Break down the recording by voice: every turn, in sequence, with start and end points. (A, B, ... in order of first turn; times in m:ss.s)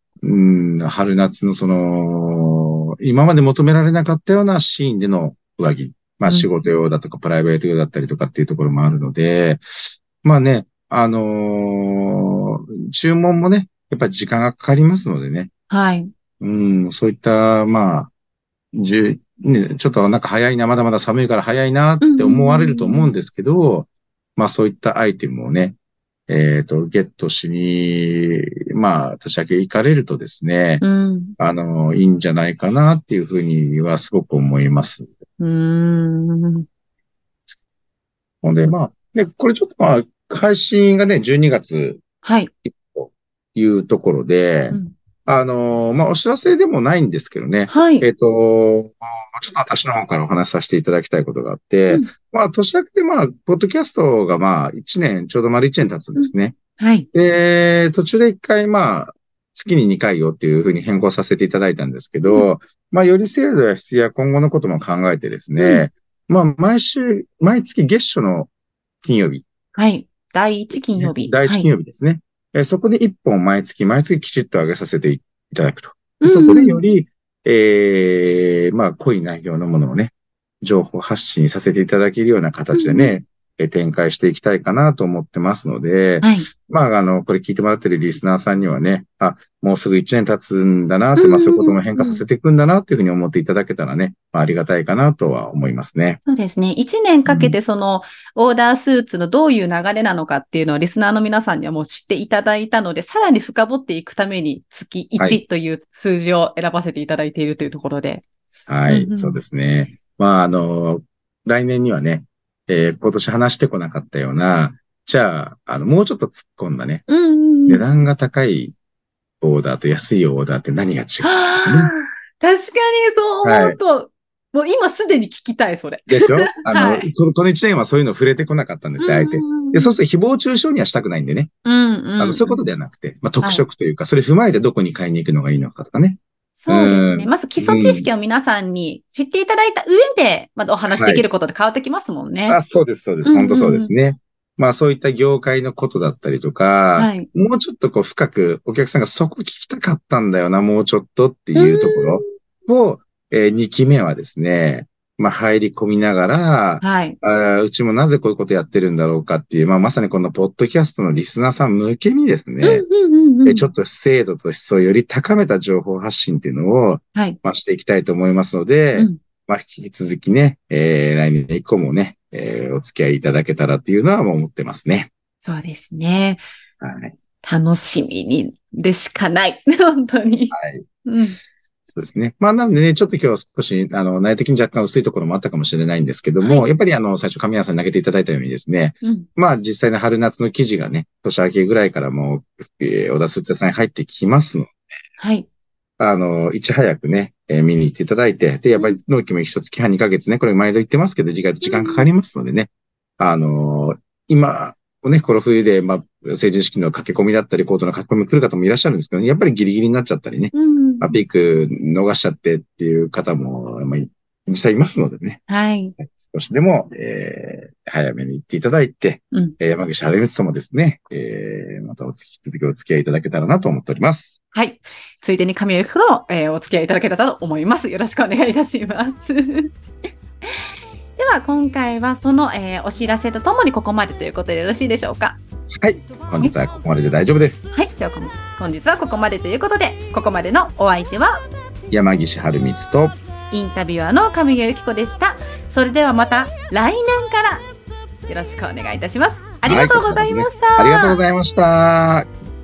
0:00.2-0:15.5 A
0:15.7-0:16.1 B
0:16.4-0:18.1 A
0:18.7-0:25.8 A
0:22.0-0:23.1 B
0:26.3-0:30.8 A
0:30.8-0:31.4 B
0:31.4-0:35.1 A
0:35.4-0:36.7 B
0:38.4-0:42.0 A
0:42.2-0:42.5 B
0:42.6-0:56.6 A
0:47.7-0:48.1 B
0:56.2-0:57.1 B
0:57.1-1:08.5 A
1:05.6-1:05.9 B
1:09.0-1:09.4 A
1:09.8-1:11.7 B
1:10.7-1:36.2 A
1:16.2-1:16.8 B
1:22.7-1:23.2 B
1:26.2-1:26.5 B
1:31.2-1:32.2 B
1:36.3-1:48.2 B
1:37.3-1:37.6 A
1:48.7-1:57.0 A
1:48.9-1:49.4 B
1:57.1-1:57.8 B
1:57.7-1:58.8 A
1:59.4-2:01.9 A
2:01.2-2:07.1 B
2:03.4-2:03.8 A
2:06.1-2:11.5 A
2:09.0-2:10.0 B
2:11.6-2:12.6 B
2:12.2-2:18.1 A
2:16.6-2:22.6 B
2:20.9-2:21.2 A
2:22.5-2:42.8 A
2:23.2-2:23.9 B
2:27.0-2:27.3 B
2:31.6-2:32.3 B
2:36.8-2:37.2 B
2:42.6-2:43.7 B
2:43.4-2:55.1 A
2:55.4-2:56.4 B
2:56.8-2:57.2 A
2:57.4-3:01.4 B
3:00.5-3:00.9 A
3:01.9-3:14.7 A
3:06.4-3:06.7 B
3:09.0-3:09.3 B
3:15.2-3:15.5 B
3:16.0-3:35.4 A
3:21.6-3:22.1 B
3:30.5-3:31.2 B
3:35.5-3:35.9 B
3:36.0-3:44.4 A
3:44.5-3:49.7 B
3:51.2-3:55.4 B
3:55.8-3:57.7 A
3:57.7-4:01.4 B
4:01.9-4:03.2 A
4:03.5-4:07.7 B
4:08.3-4:11.2 B
4:09.6-4:12.3 A